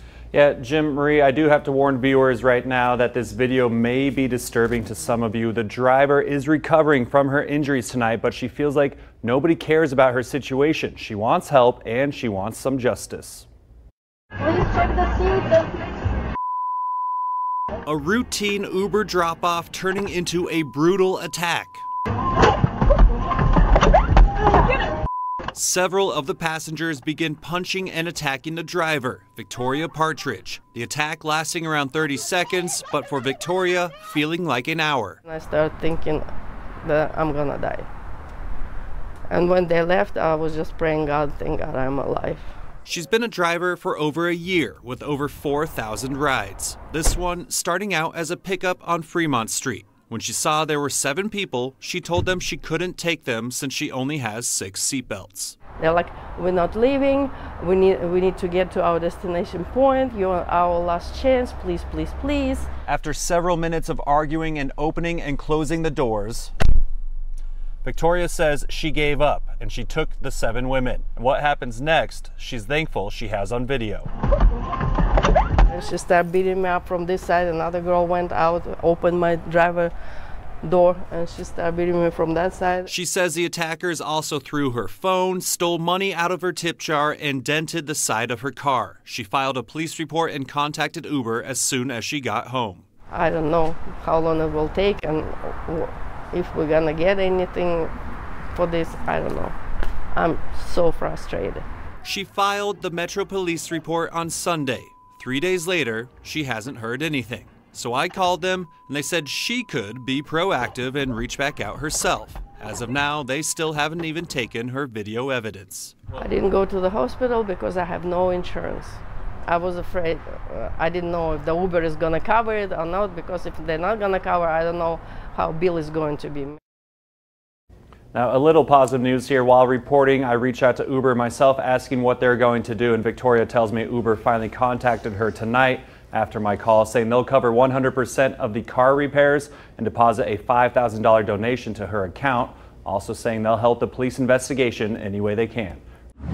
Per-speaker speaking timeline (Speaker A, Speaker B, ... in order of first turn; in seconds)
Speaker A: 0.3-13.4, 17.8-21.8, 25.5-35.2, 42.9-55.5, 62.9-66.5, 67.8-74.1, 82.9-92.8, 102.0-116.0, 128.1-145.8
Speaker B: 35.2-36.2, 36.8-37.9, 39.3-42.5, 55.8-62.7, 75.7-79.9, 80.6-82.9, 93.1-97.9, 98.5-99.5, 100.1-101.6, 116.1-126.6